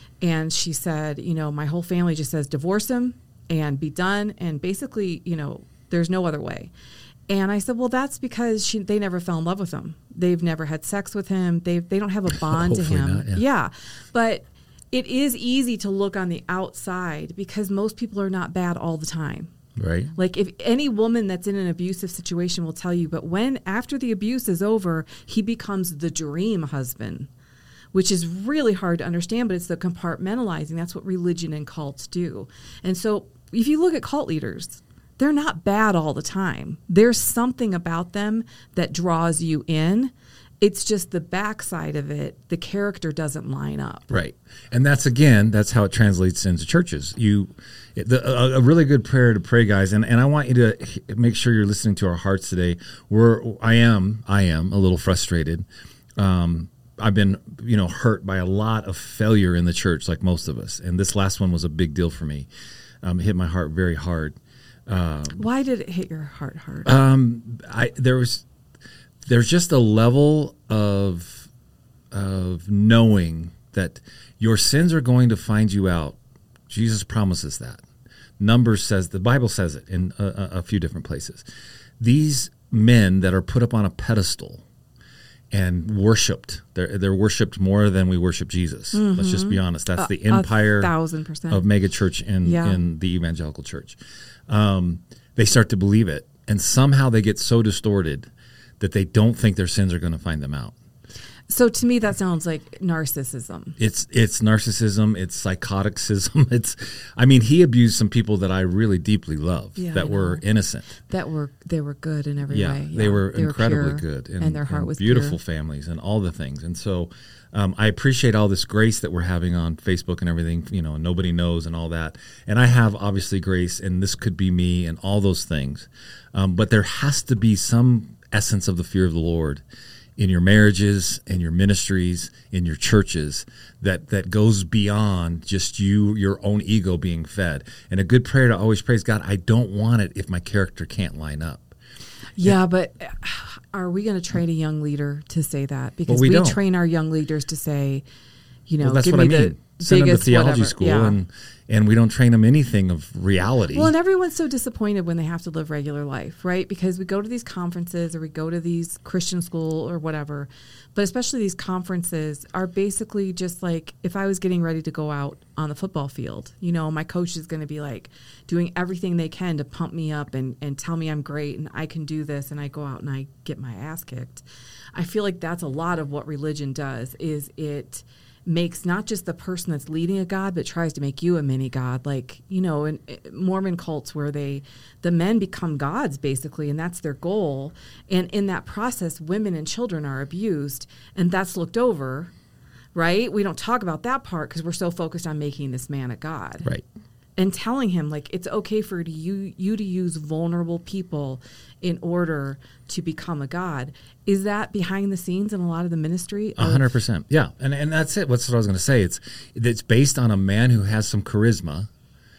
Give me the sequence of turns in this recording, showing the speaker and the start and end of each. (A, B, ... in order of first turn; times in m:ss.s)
0:00.2-0:06.7 A
0:07.3-0:19.5 A
0:12.3-0:13.4 B
0:19.8-0:20.1 B
0:20.2-0:27.3 A
0:27.9-0:44.1 A
0:44.1-0:55.6 B
0:56.2-1:02.5 B
1:03.0-1:05.4 B
1:05.4-1:06.9 A
1:06.8-1:08.4 B
1:09.2-1:11.5 B
1:12.1-1:16.2 B
1:16.7-1:17.8 B
1:18.4-1:21.4 B
1:22.0-1:24.6 B
1:25.5-1:30.9 B
1:28.9-1:31.6 A
1:31.5-1:38.3 B
1:32.4-1:32.8 A
1:38.8-1:40.7 B
1:41.5-1:43.8 A
1:43.8-1:50.9 B
1:49.8-1:50.4 A
1:51.1-1:55.4 A
1:52.5-2:09.6 B
2:10.2-2:21.7 B
2:22.4-2:28.0 A
2:26.1-2:26.6 B
2:28.7-2:31.2 A
2:28.8-2:33.9 B
2:33.7-3:12.3 A
3:12.9-3:16.7 A
3:17.4-3:27.0 A
3:26.6-3:31.9 B